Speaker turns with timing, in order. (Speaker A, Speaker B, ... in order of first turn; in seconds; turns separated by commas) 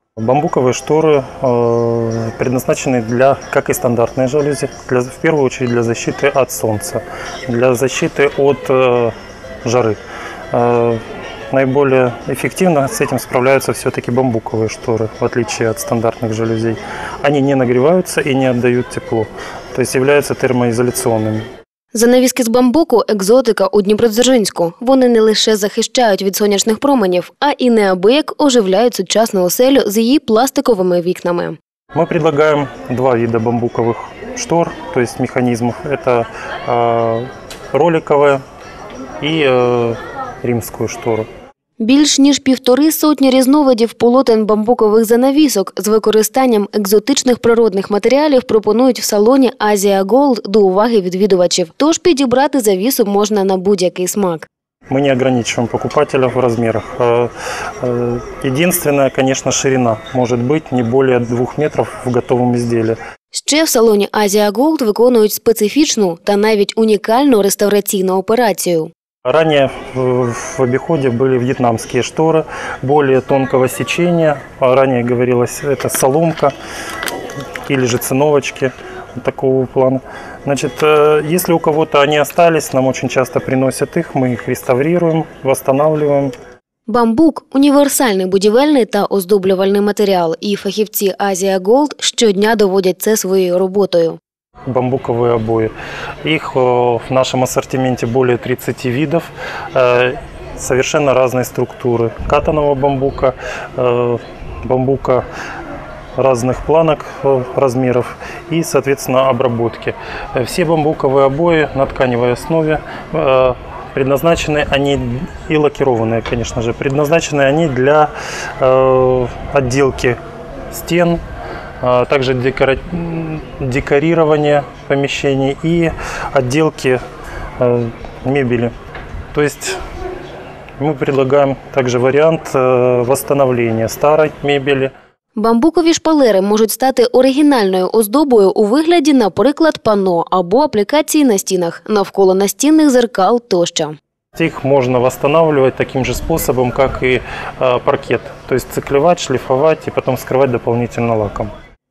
Speaker A: 0.2-10.0, Speaker A: 10.5-21.4, Speaker B: 21.9-31.6, Speaker A: 31.9-38.4, Speaker A: 39.2-41.3, Speaker B: 41.8-54.5, Speaker A: 54.9-63.0, Speaker B: 63.3-68.9, Speaker A: 69.2-76.5, Speaker A: 77.7-86.3, Speaker B: 86.9-94.2, Speaker A: 94.7-95.7, Speaker A: 96.2-105.2, Speaker A: 106.2-120.2, Speaker A: 120.7-121.2, Speaker A: 121.8-127.0, Speaker A: 127.6-128.7, Speaker A: 129.3-129.8, Speaker A: 130.8-134.9, Speaker B: 135.3-144.0, Speaker A: 144.3-151.5